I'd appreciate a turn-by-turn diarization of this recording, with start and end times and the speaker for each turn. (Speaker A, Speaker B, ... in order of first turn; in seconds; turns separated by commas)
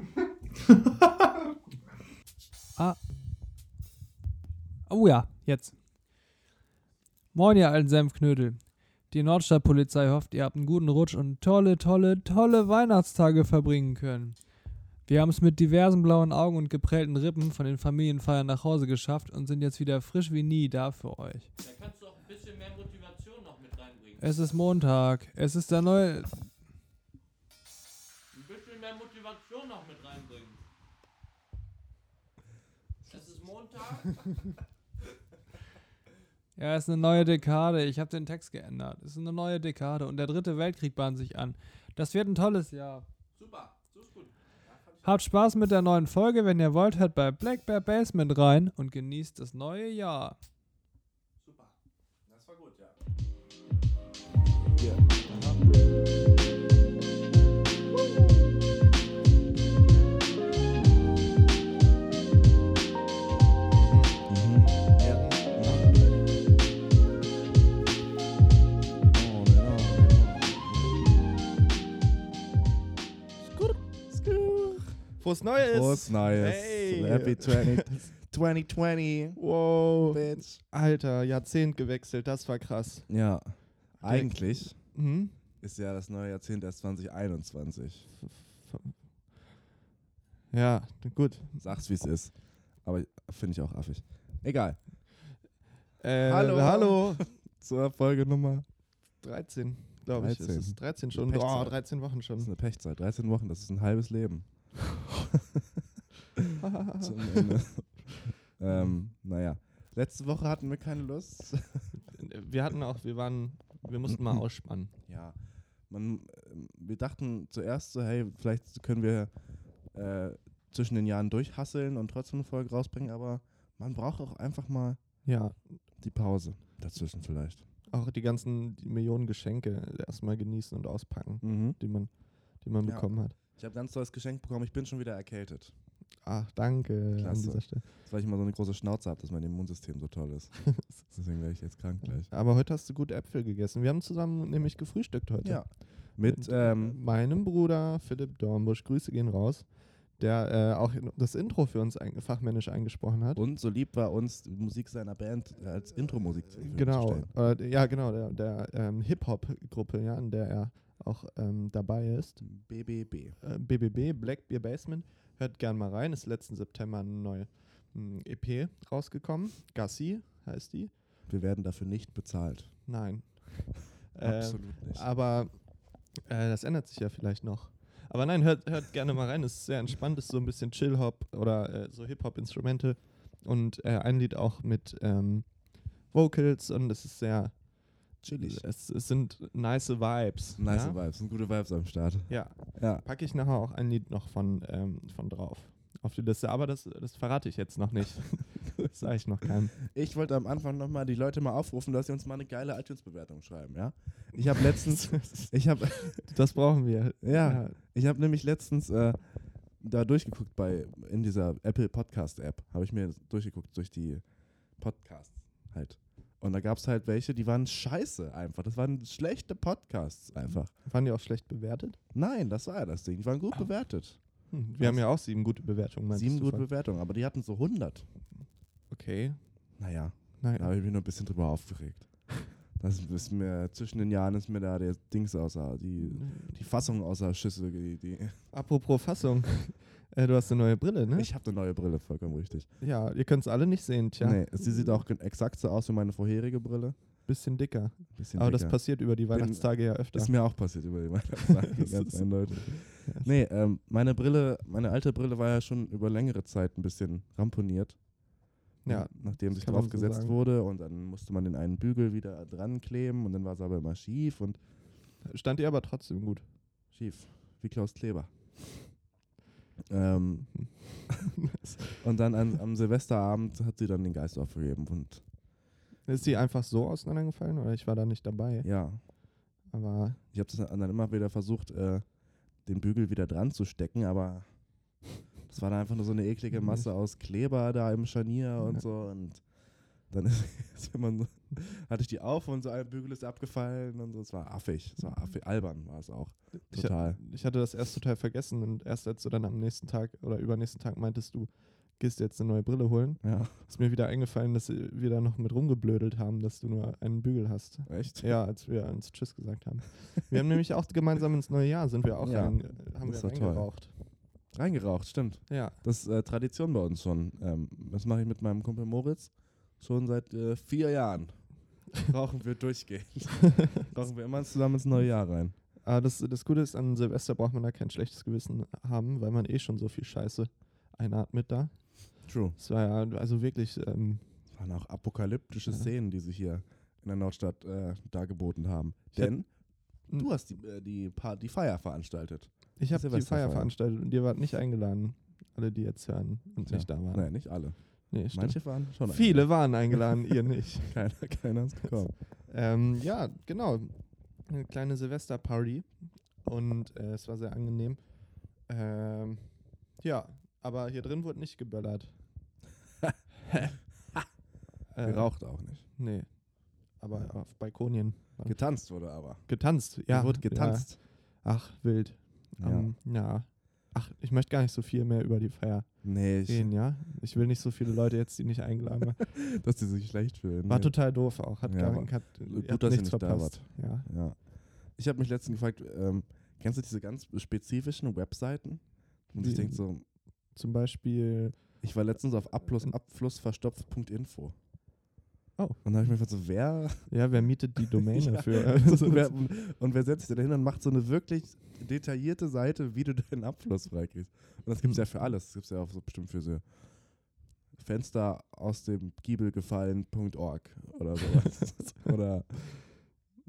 Speaker A: 4.9-5.9, Speaker A: 7.3-21.5, Speaker B: 21.6-24.6, Speaker A: 24.2-26.3, Speaker B: 28.3-30.6, Speaker B: 33.1-34.4, Speaker A: 36.6-43.0, Speaker B: 43.4-45.0, Speaker A: 45.0-50.4, Speaker B: 51.4-51.7, Speaker B: 52.3-52.9, Speaker C: 54.8-55.6, Speaker D: 63.8-64.1, Speaker C: 64.3-66.0, Speaker D: 65.2-65.9, Speaker C: 69.1-71.4, Speaker D: 73.5-78.1, Speaker C: 75.6-80.6, Speaker D: 79.4-83.1, Speaker C: 83.1-84.9, Speaker D: 84.0-85.4, Speaker C: 85.6-88.1, Speaker D: 88.2-89.0, Speaker D: 90.5-91.6, Speaker C: 91.6-94.8, Speaker D: 96.0-97.3, Speaker C: 96.2-98.7, Speaker D: 99.2-102.5, Speaker C: 100.1-105.6, Speaker C: 106.4-111.9, Speaker D: 106.6-107.6, Speaker D: 112.0-114.9, Speaker C: 115.1-119.3, Speaker C: 119.9-125.0, Speaker D: 125.2-125.8, Speaker C: 126.0-127.6, Speaker D: 127.9-133.4, Speaker C: 131.4-131.8, Speaker C: 132.8-135.7, Speaker D: 136.2-137.8, Speaker C: 137.2-142.3, Speaker D: 140.7-141.0, Speaker D: 142.3-153.4, Speaker C: 145.4-147.0, Speaker C: 153.3-157.3, Speaker D: 156.6-162.6, Speaker C: 162.4-163.4, Speaker D: 163.4-170.9, Speaker C: 171.3-172.8, Speaker D: 172.9-191.0, Speaker C: 174.2-175.1, Speaker C: 188.2-188.6, Speaker C: 190.6-193.1, Speaker D: 192.3-199.8, Speaker C: 199.8-206.3, Speaker D: 204.4-207.8, Speaker C: 207.2-220.7, Speaker D: 220.8-222.0, Speaker C: 222.1-225.1, Speaker D: 224.5-226.7, Speaker C: 226.1-228.1, Speaker D: 228.9-229.8, Speaker C: 229.8-238.4, Speaker D: 230.4-230.7, Speaker D: 236.0-236.6, Speaker D: 238.5-241.3, Speaker C: 241.1-242.7, Speaker D: 242.8-245.1, Speaker C: 244.2-247.0, Speaker D: 247.3-250.6, Speaker C: 248.2-258.1, Speaker D: 251.7-253.3, Speaker D: 258.8-260.4, Speaker C: 258.9-264.6, Speaker D: 265.2-266.4, Speaker C: 266.9-268.9, Speaker C: 269.9-271.0, Speaker D: 271.2-271.9, Speaker C: 272.0-275.2, Speaker D: 276.0-278.7, Speaker C: 278.6-279.0, Speaker D: 279.6-280.2, Speaker C: 280.3-282.1, Speaker C: 282.6-297.2, Speaker D: 296.7-313.9, Speaker C: 303.2-303.6, Speaker C: 307.9-308.4, Speaker C: 312.2-325.5, Speaker D: 315.5-315.8, Speaker D: 325.8-334.2, Speaker C: 332.2-332.6, Speaker C: 334.5-343.7, Speaker D: 339.1-340.3, Speaker D: 342.8-351.0, Speaker C: 346.6-350.1, Speaker C: 350.8-352.1, Speaker D: 352.4-362.5, Speaker D: 363.5-363.8, Speaker D: 364.9-379.2, Speaker C: 365.0-365.8, Speaker C: 368.4-371.0, Speaker C: 372.6-372.9, Speaker C: 376.0-376.7, Speaker C: 379.3-390.0, Speaker D: 380.7-384.1, Speaker D: 389.4-391.8, Speaker C: 391.8-394.5, Speaker D: 395.6-395.8, Speaker C: 395.8-397.1, Speaker D: 397.1-399.3, Speaker C: 398.1-413.2, Speaker D: 404.8-405.1